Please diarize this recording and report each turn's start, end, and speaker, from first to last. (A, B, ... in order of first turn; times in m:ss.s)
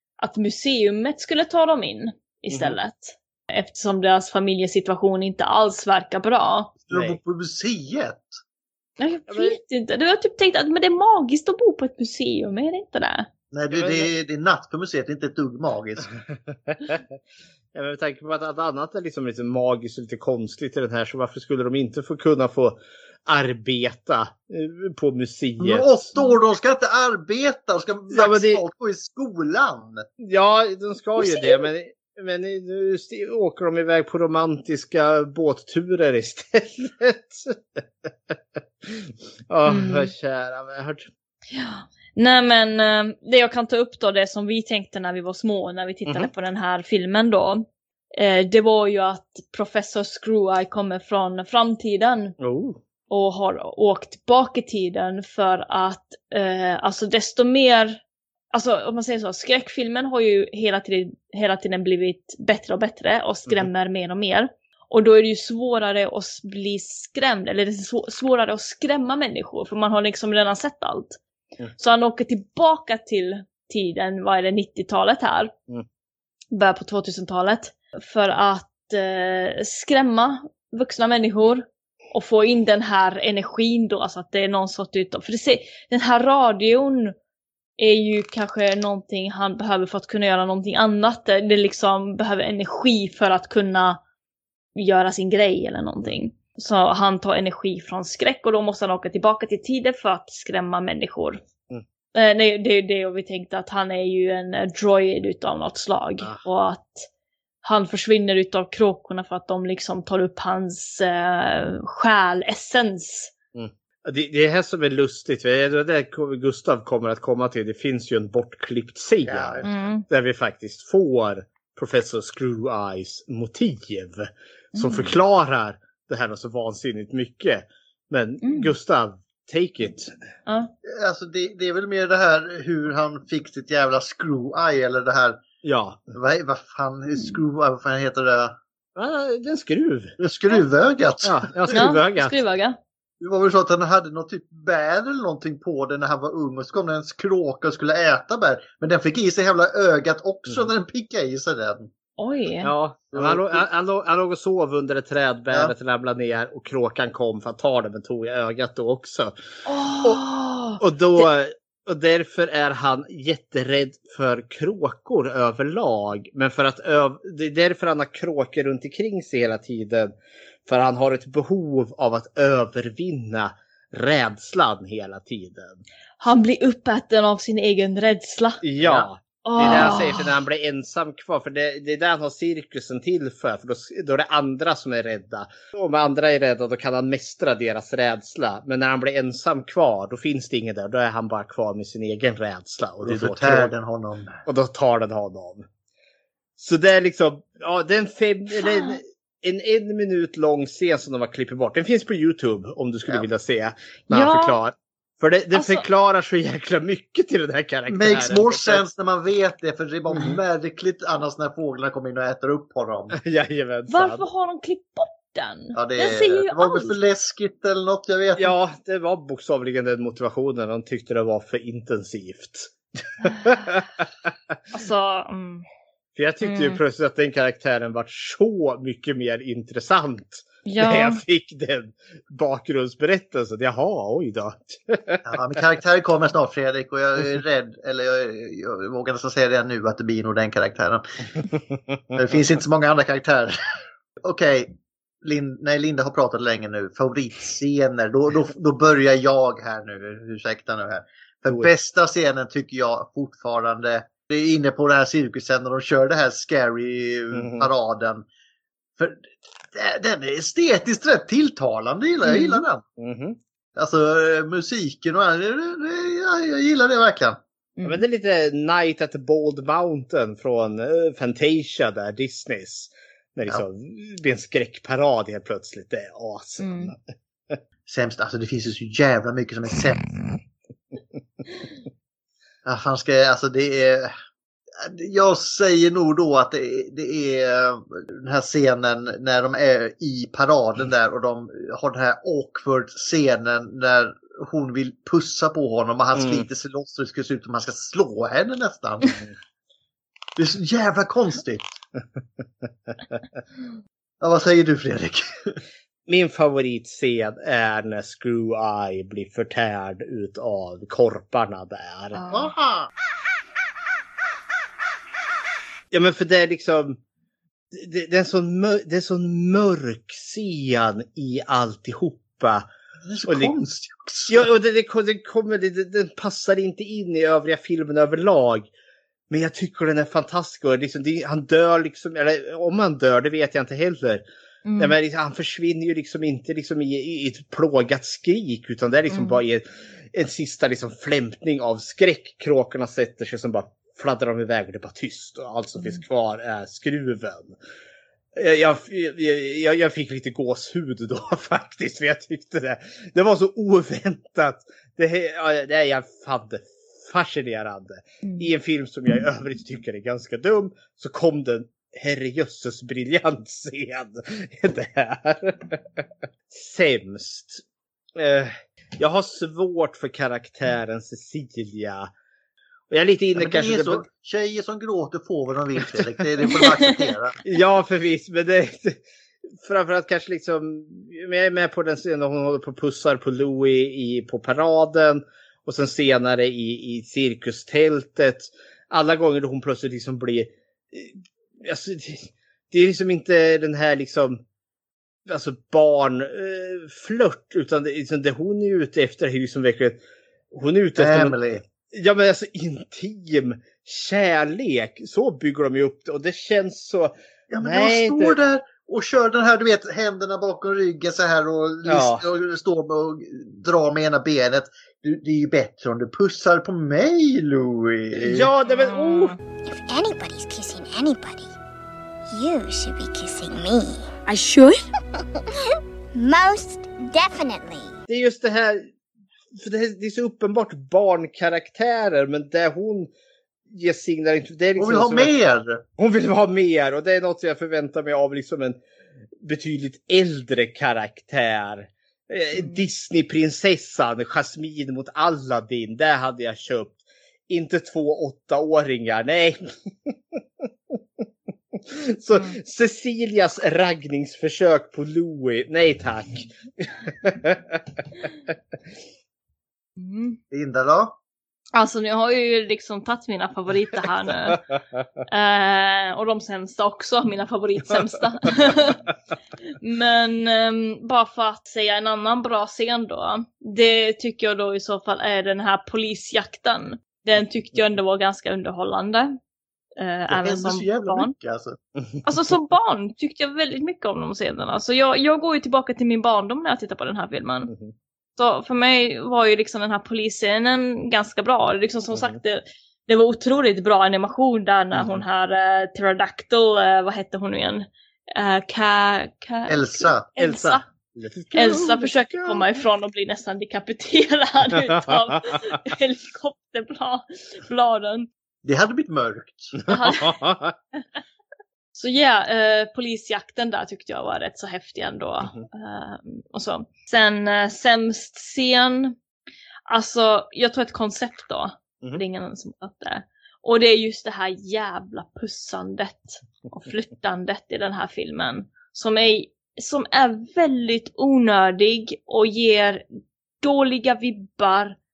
0:00.2-0:06.8 A
0:06.9-0:08.4 B
0:06.9-0:07.2 C
0:09.0-0:13.3 A
0:09.3-0:09.6 C
0:13.5-0:16.1 B
0:13.7-0:14.1 C
0:16.3-0:17.0 C
0:17.7-0:26.1 C
0:25.6-0:30.0 B
0:28.1-0:28.6 C
0:30.2-0:41.1 C
0:31.2-0:31.7 A
0:39.6-0:40.1 A
0:41.5-0:52.4 A
0:52.4-0:52.8 C
0:53.1-0:58.0 A
0:58.5-1:11.2 A
1:11.8-1:15.5 A
1:16.5-1:27.2 A
1:27.8-1:34.0 A
1:34.8-1:41.4 A
1:42.2-1:47.1 A
1:47.6-1:53.3 A
1:53.6-2:10.1 C
1:59.2-1:59.8 B
1:59.6-2:00.0 A
2:04.7-2:05.1 A
2:08.4-2:08.7 A
2:10.5-2:10.7 A
2:10.8-2:15.4 B
2:15.6-2:16.1 C
2:16.1-2:18.6 B
2:17.1-2:17.4 A
2:19.0-2:20.1 C
2:20.2-2:21.8 B
2:21.2-2:22.4 C
2:21.7-2:22.8 A
2:23.2-2:31.9 B
2:32.2-2:32.7 A
2:32.6-2:39.3 C
2:33.1-2:33.7 B
2:39.7-2:41.3 A
2:40.8-2:50.1 C
2:50.7-2:55.8 C
2:56.2-3:00.3 A
2:58.6-3:13.7 C
3:13.0-3:14.4 B
3:14.5-3:15.7 C
3:16.6-3:28.8 C
3:18.6-3:19.0 A
3:24.1-3:24.6 A
3:25.5-3:25.9 A
3:27.9-3:33.2 B
3:33.2-3:34.2 C
3:33.9-3:36.9 A
3:35.8-3:38.5 B
3:38.4-3:44.1 C
3:44.7-3:45.6 A
3:46.2-3:55.2 C
3:46.4-3:46.8 A
3:50.7-3:51.2 A
3:55.2-4:01.0 B
4:02.2-4:03.6 B
4:04.2-4:18.2 B
4:17.3-4:17.7 C
4:19.0-4:22.8 B
4:22.2-4:22.6 A
4:23.0-4:23.4 C
4:23.8-4:27.4 B
4:27.8-4:28.0 A
4:27.8-4:37.0 C
4:36.6-4:36.9 A
4:37.9-4:40.1 B
4:42.6-4:44.1 B
4:44.8-4:59.2 B
4:56.2-4:56.5 C
5:00.4-5:01.6 B
5:04.2-5:05.6 B
5:06.1-5:12.2 C
5:12.2-5:12.5 A
5:12.3-5:12.9 B
5:15.9-5:17.0 C
5:17.7-5:22.7 C
5:23.0-5:24.5 B
5:23.3-5:23.5 C
5:24.3-5:28.7 C
5:29.3-5:34.2 C
5:34.6-5:35.0 A
5:34.8-5:47.6 C
5:39.1-5:39.4 A
5:48.4-6:07.6 C
6:08.2-6:12.1 C
6:12.9-6:14.0 C
6:13.4-6:17.4 B
6:17.4-6:19.0 C
6:19.6-6:34.4 C
6:35.3-6:40.0 C
6:40.5-6:48.4 C
6:41.0-6:41.6 B
6:47.5-6:58.5 B
6:51.9-6:52.2 C
6:58.2-6:59.4 C
6:58.7-6:59.4 A
6:59.6-7:01.5 D
7:02.3-7:04.1 D
7:04.3-7:04.7 A
7:06.1-7:07.9 D
7:08.1-7:08.9 C
7:09.6-7:13.1 C
7:13.7-7:15.3 C
7:14.8-7:15.8 B
7:16.0-7:18.8 C
7:19.4-7:30.4 C
7:30.9-7:37.8 C
7:40.0-7:40.4 A
7:40.5-7:41.2 B
7:41.8-7:44.6 A
7:45.3-7:49.0 A
7:49.8-7:59.4 A
8:00.0-8:01.3 A
8:00.3-8:01.8 B
8:02.2-8:07.7 A
8:07.7-8:07.9 C
8:08.4-8:20.8 A
8:12.1-8:12.4 C
8:15.0-8:15.2 C
8:19.7-8:20.3 B
8:20.4-8:22.6 C
8:21.5-8:28.3 A
8:24.9-8:25.5 C
8:28.6-8:29.7 B
8:29.8-8:30.7 C
8:29.9-8:30.4 A
8:32.0-8:39.2 A
8:39.9-8:53.0 A
8:53.6-8:55.0 A